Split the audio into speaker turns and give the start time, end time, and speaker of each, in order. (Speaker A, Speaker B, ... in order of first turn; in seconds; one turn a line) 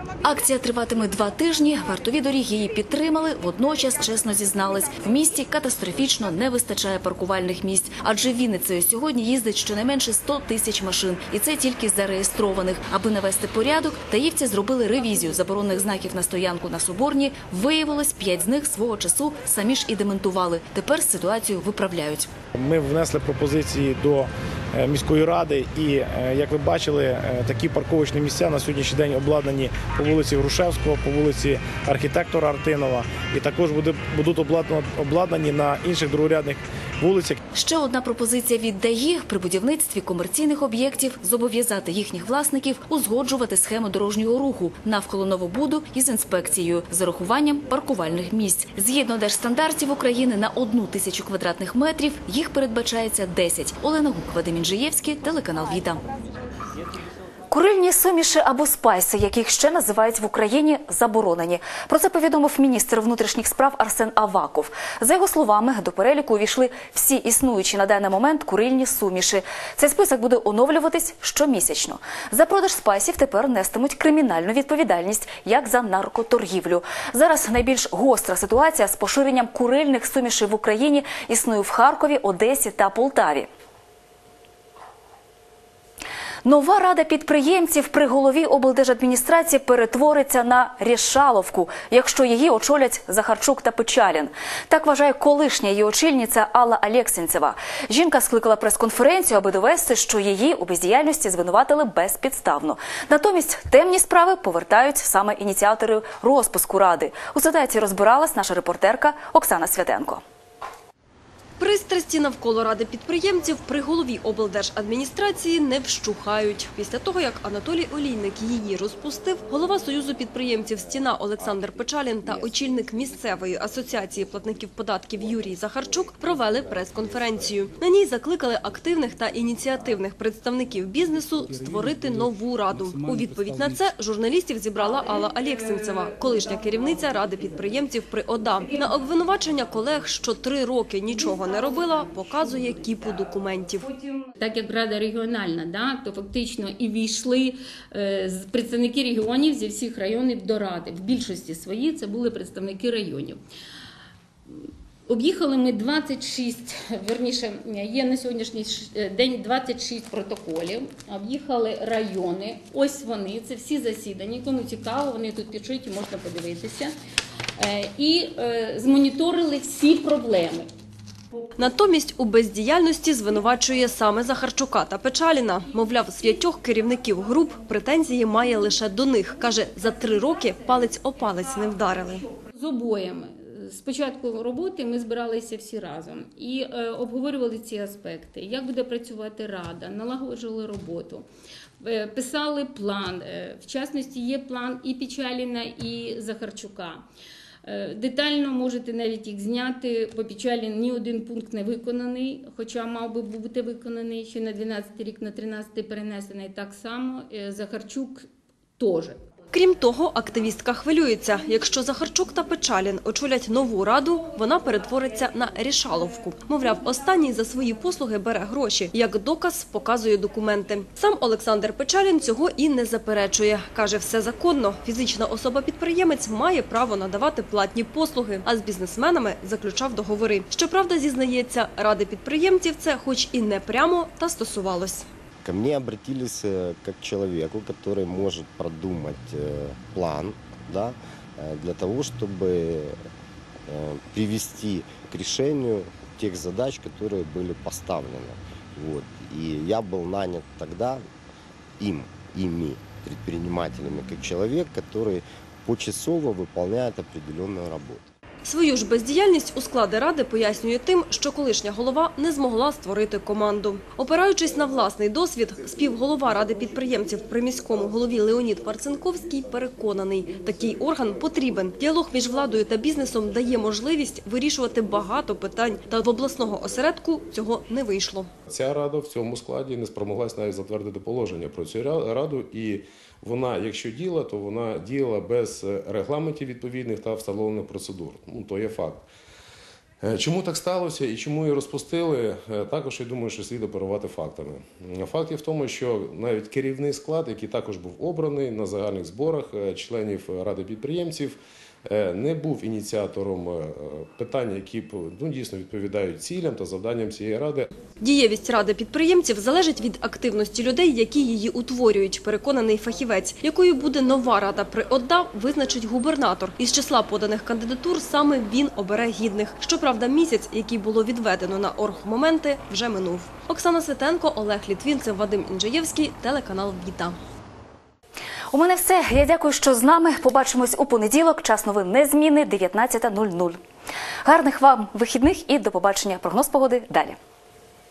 Speaker A: 0.2-22.3
Speaker B: 22.6-37.4
Speaker A: 37.5-56.0
Speaker A: 57.5-83.5
Speaker A: 86.4-110.2
Speaker C: 111.6-143.9
Speaker D: 144.4-153.4
Speaker D: 155.1-166.9
Speaker D: 167.6-170.7
Speaker C: 171.6-182.3
Speaker D: 182.6-191.2
Speaker D: 191.8-197.0
Speaker D: 197.7-208.3
Speaker D: 208.8-209.2
Speaker C: 209.5-235.1
Speaker E: 235.4-243.0
Speaker E: 243.7-251.1
Speaker E: 251.8-258.1
Speaker C: 258.4-278.3
Speaker F: 278.5-289.1
Speaker F: 290.0-307.7
Speaker C: 308.0-327.2
Speaker A: 328.5-333.6
Speaker A: 334.2-337.2